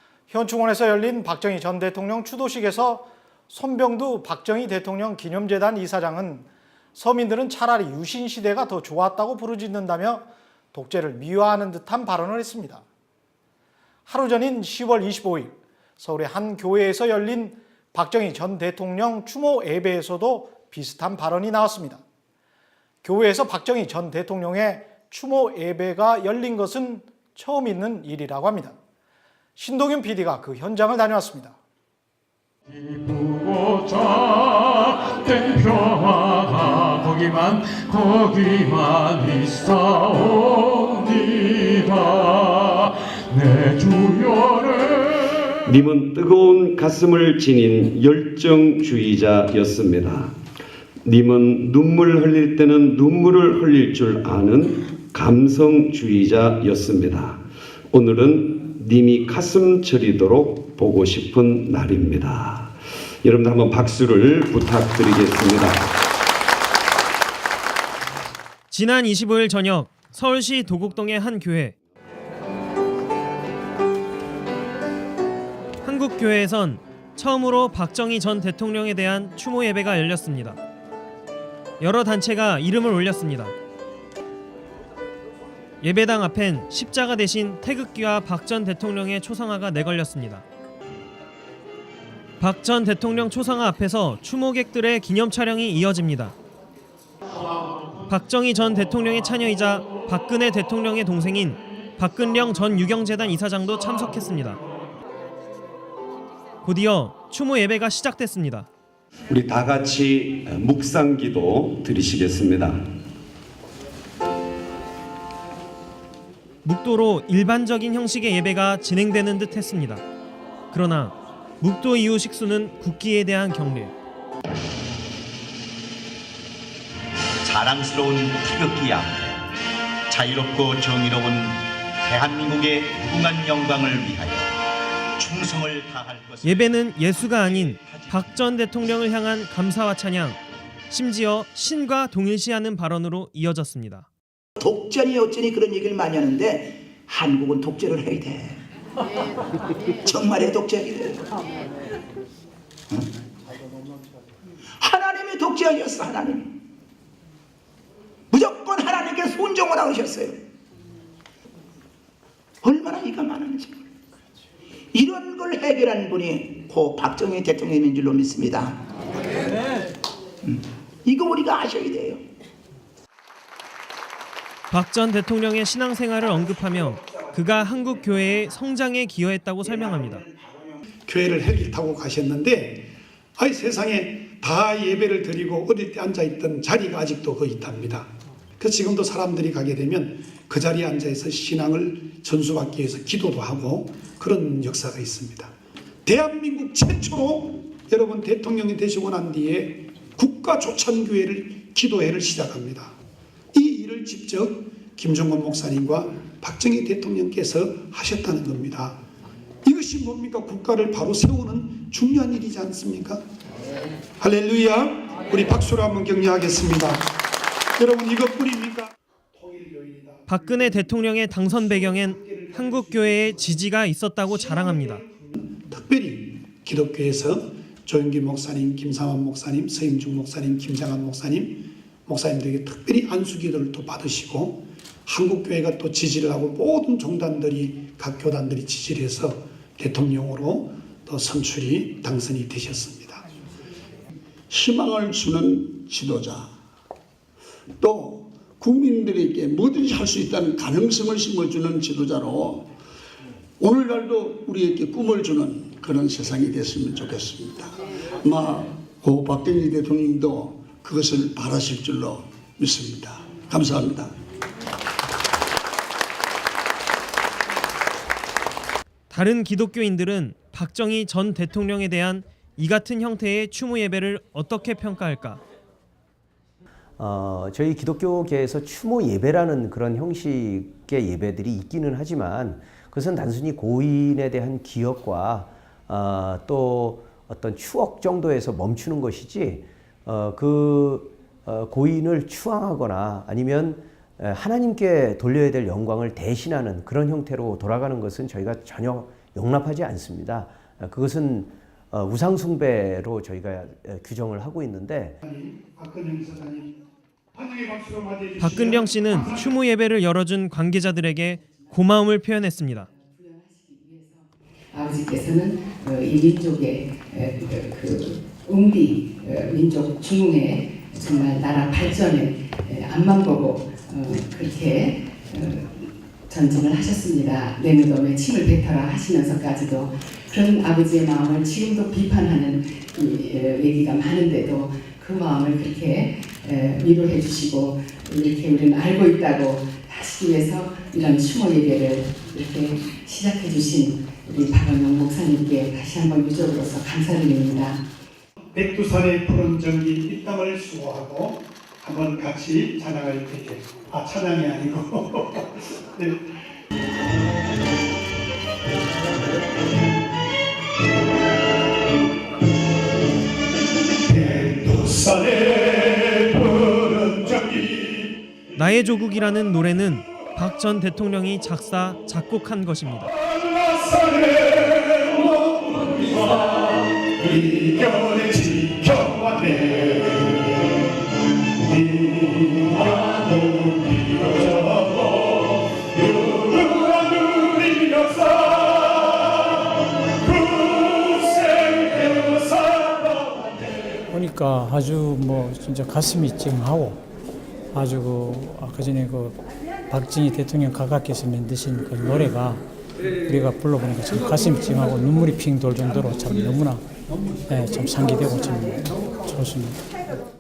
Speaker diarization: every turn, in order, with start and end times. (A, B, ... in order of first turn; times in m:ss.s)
0:00.3-0:12.8 A
0:14.1-0:22.0 A
0:23.0-0:28.8 A
0:29.6-0:31.6 A
0:32.8-0:45.1 B
0:45.7-0:50.4 C
0:51.0-1:02.7 C
1:03.2-1:05.8 C
1:08.7-1:11.8 D
1:15.8-1:20.6 D
1:21.8-1:23.5 D
1:25.8-1:30.4 D
1:32.4-1:36.3 D
1:38.1-1:44.6 D
1:46.6-1:48.7 D
1:49.3-1:52.8 C
1:56.6-2:00.0 D
2:00.7-2:03.9 D
2:07.4-2:09.4 E
2:10.1-2:14.5 E
2:15.2-2:18.2 E
2:16.4-2:20.4 D
2:20.9-2:24.1 D
2:24.6-2:28.6 F
2:30.0-2:31.3 F
2:34.8-2:36.5 F
2:38.3-2:40.4 F
2:42.6-2:43.8 F
2:44.9-2:48.8 F
2:50.4-2:52.2 F
2:54.7-3:00.2 D
2:56.7-2:57.3 F
2:59.6-3:00.8 F
3:01.1-3:15.5 G
3:16.0-3:23.0 G
3:23.5-3:29.0 G
3:29.6-3:33.2 G
3:34.2-3:37.1 G
3:37.8-3:43.7 G
3:40.3-3:45.0 D
3:44.2-4:03.2 G
4:04.5-4:06.5 H
4:07.8-4:12.5 H
4:13.6-4:17.7 H
4:18.3-4:24.1 H
4:29.1-4:35.4 D
4:37.0-5:05.2 I
5:05.2-5:06.8 G
5:07.3-5:09.6 G
5:08.4-5:12.9 D
5:11.4-5:11.8 J
5:12.8-5:47.8 J
5:48.5-5:56.3 G
6:04.1-6:08.2 G
6:08.6-6:13.1 D
6:13.5-6:16.6 G
6:17.2-6:20.4 G
6:21.6-6:29.5 G
6:30.2-6:33.5 G
6:34.1-6:37.0 K
6:37.7-6:42.6 K
6:43.2-6:46.8 K
6:47.4-6:49.8 K